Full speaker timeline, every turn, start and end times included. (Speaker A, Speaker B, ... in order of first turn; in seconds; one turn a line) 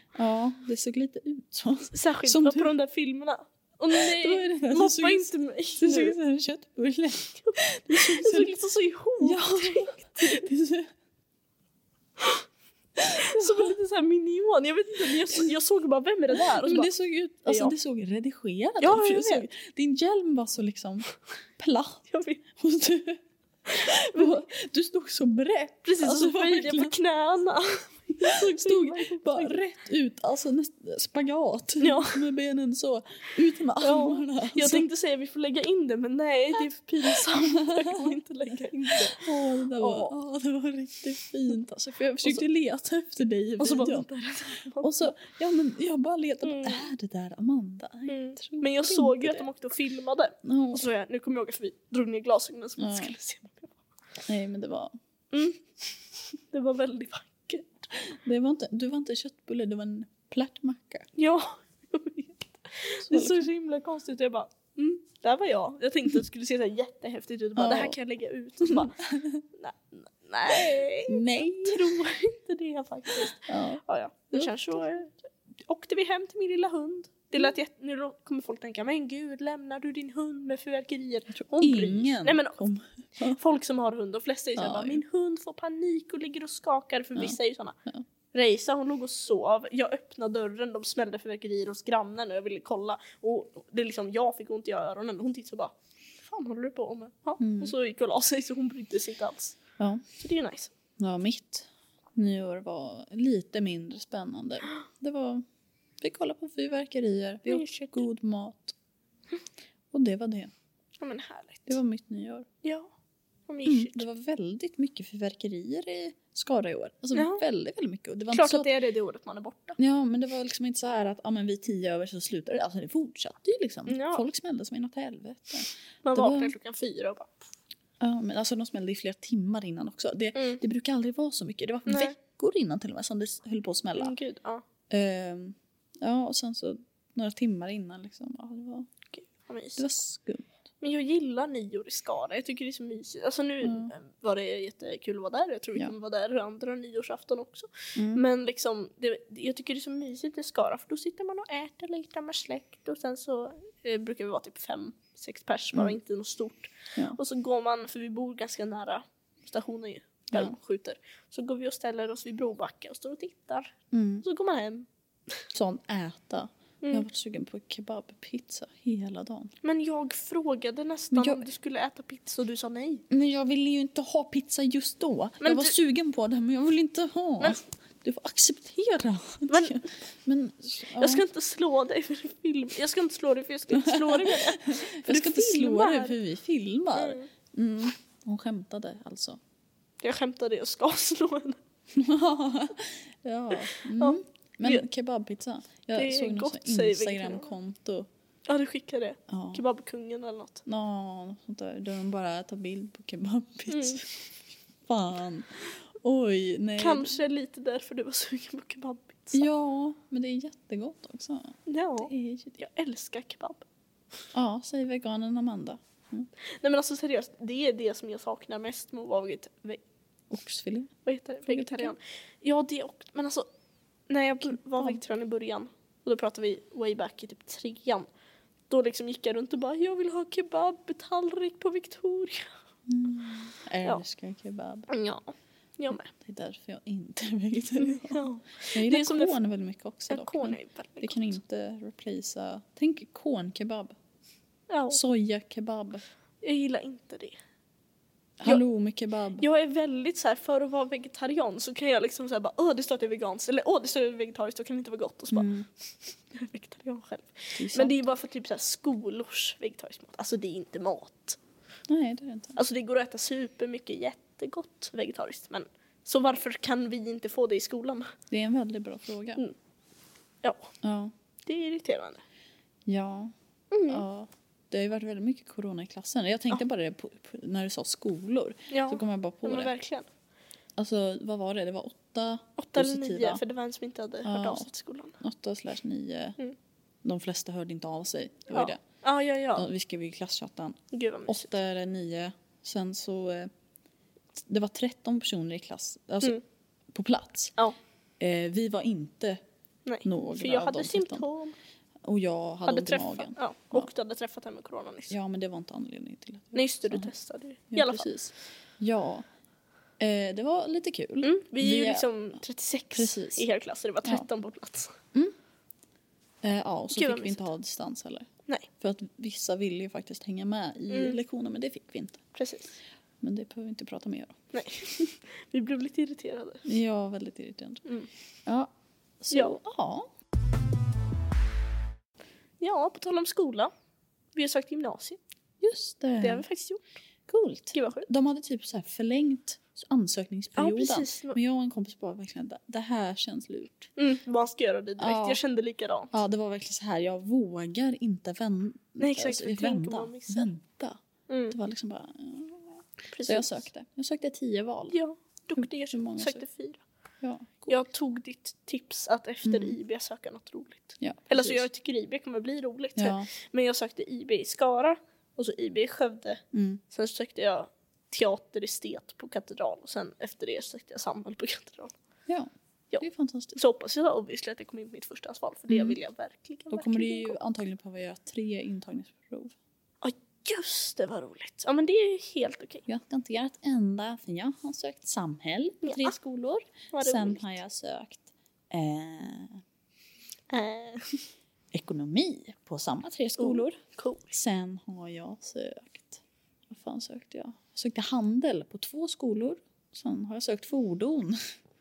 Speaker A: 0.1-2.7
Speaker B: 1.9-6.2
Speaker A: 3.9-8.6
Speaker B: 7.4-10.5
Speaker A: 9.2-10.9
Speaker B: 12.2-12.4
Speaker B: 13.0-16.9
Speaker A: 13.0-13.7
Speaker A: 15.0-15.5
Speaker A: 16.4-21.1
Speaker B: 17.5-17.8
Speaker B: 18.8-19.5
Speaker A: 21.6-23.2
Speaker B: 22.1-22.4
Speaker B: 23.7-24.4
Speaker A: 23.8-27.0
Speaker B: 25.9-29.6
Speaker A: 28.2-34.9
Speaker B: 31.8-32.2
Speaker B: 33.8-40.1
Speaker A: 37.0-49.5
Speaker B: 43.6-45.1
Speaker B: 46.4-46.9
Speaker B: 48.1-53.8
Speaker A: 50.4-50.9
Speaker A: 52.8-53.1
Speaker A: 54.2-54.9
Speaker B: 55.3-55.9
Speaker B: 56.5-57.9
Speaker A: 58.0-61.1
Speaker B: 61.2-82.6
Speaker A: 63.0-63.5
Speaker A: 67.6-68.0
Speaker A: 68.7-69.4
Speaker A: 70.5-72.0
Speaker A: 73.2-73.8
Speaker A: 81.3-83.4
Speaker B: 83.2-87.8
Speaker A: 84.6-85.0
Speaker A: 87.2-88.0
Speaker B: 88.3-99.6
Speaker A: 97.4-97.7
Speaker B: 100.2-100.7
Speaker A: 101.0-105.4
Speaker A: 106.0-108.8
Speaker B: 107.5-108.0
Speaker A: 109.9-110.5
Speaker B: 111.0-111.8
Speaker A: 111.7-112.5
Speaker B: 112.6-112.9
Speaker B: 113.5-114.0
Speaker A: 113.6-118.7
Speaker B: 117.1-117.4
Speaker B: 118.3-119.8
Speaker A: 119.8-126.5
Speaker B: 123.9-124.2
Speaker B: 126.0-127.4
Speaker A: 128.0-134.1
Speaker B: 130.4-130.6
Speaker B: 131.9-132.2
Speaker B: 134.0-134.6
Speaker A: 134.9-139.0
Speaker B: 139.2-139.8
Speaker A: 139.8-140.5
Speaker B: 140.8-164.9
Speaker A: 143.6-143.9
Speaker A: 148.0-148.2
Speaker A: 163.9-164.2
Speaker A: 165.5-169.5
Speaker B: 169.6-173.0
Speaker A: 171.1-171.5
Speaker A: 173.1-181.2
Speaker B: 175.4-175.8
Speaker B: 179.5-179.8
Speaker B: 181.0-186.2
Speaker A: 183.7-189.4
Speaker B: 186.9-187.3
Speaker B: 190.0-191.6
Speaker A: 191.9-198.1
Speaker B: 193.8-194.8
Speaker B: 195.9-197.5
Speaker B: 198.5-200.6
Speaker A: 199.3-199.6
Speaker A: 200.7-204.1
Speaker B: 203.7-204.0
Speaker A: 204.9-207.2
Speaker B: 206.8-209.5
Speaker A: 209.3-212.6
Speaker B: 211.7-213.6
Speaker A: 214.3-216.3
Speaker B: 216.6-219.8
Speaker A: 220.3-220.9
Speaker B: 221.0-223.5
Speaker A: 221.5-221.9
Speaker B: 224.1-228.1
Speaker A: 224.4-225.0
Speaker B: 228.7-232.5
Speaker A: 232.9-234.9
Speaker B: 234.9-236.1
Speaker A: 236.1-244.0
Speaker B: 237.8-239.4
Speaker B: 240.1-241.4
Speaker B: 244.7-245.0
Speaker A: 244.9-246.0
Speaker B: 246.4-247.4
Speaker A: 248.4-249.4
Speaker B: 249.4-255.5
Speaker A: 255.3-255.7
Speaker B: 256.3-261.4
Speaker A: 257.5-258.0
Speaker A: 261.9-262.6
Speaker B: 262.6-268.1
Speaker A: 268.3-269.4
Speaker B: 270.4-270.7
Speaker A: 270.8-271.1
Speaker B: 271.5-272.2
Speaker A: 272.9-273.3
Speaker B: 273.7-274.0
Speaker A: 273.9-279.7
Speaker B: 278.7-280.1
Speaker A: 280.8-283.4
Speaker B: 282.6-285.2
Speaker A: 284.2-286.4
Speaker A: 287.0-288.8
Speaker B: 288.5-289.7
Speaker A: 289.6-293.5
Speaker B: 290.9-291.5
Speaker A: 294.4-296.4
Speaker A: 296.9-297.5
Speaker A: 298.2-299.4
Speaker B: 299.9-301.6
Speaker A: 300.0-301.3
Speaker A: 302.0-303.9
Speaker B: 302.6-305.1
Speaker A: 305.1-307.1
Speaker B: 306.5-308.3
Speaker A: 307.7-309.2
Speaker A: 310.0-312.1
Speaker B: 311.2-315.0
Speaker A: 312.9-313.4
Speaker A: 316.4-322.2
Speaker B: 317.0-317.5
Speaker B: 320.9-321.2
Speaker B: 322.3-322.7
Speaker A: 323.2-324.4
Speaker B: 324.5-326.6
Speaker A: 326.6-327.8
Speaker A: 328.5-330.1
Speaker B: 329.3-329.6
Speaker B: 332.6-333.7
Speaker B: 334.4-335.2
Speaker A: 335.6-336.4
Speaker B: 336.2-336.8
Speaker A: 337.3-343.9
Speaker B: 337.8-338.1
Speaker B: 340.6-341.4
Speaker B: 344.0-346.1
Speaker A: 345.0-345.4
Speaker A: 346.1-351.0
Speaker B: 349.0-350.5
Speaker B: 351.3-351.5
Speaker A: 351.5-355.0
Speaker B: 353.1-353.6
Speaker B: 354.9-356.8
Speaker A: 355.6-356.4
Speaker A: 357.2-357.8
Speaker B: 357.7-371.9
Speaker A: 359.5-359.8
Speaker A: 361.0-361.6
Speaker A: 363.0-363.3
Speaker A: 366.5-366.8
Speaker A: 372.3-373.6
Speaker B: 373.5-377.4
Speaker A: 375.7-376.0
Speaker A: 376.7-379.5
Speaker B: 380.0-382.9
Speaker A: 382.9-389.6
Speaker B: 385.8-386.1
Speaker B: 386.9-387.6
Speaker B: 390.5-391.2
Speaker A: 391.7-393.8
Speaker B: 393.4-394.3
Speaker A: 394.3-401.4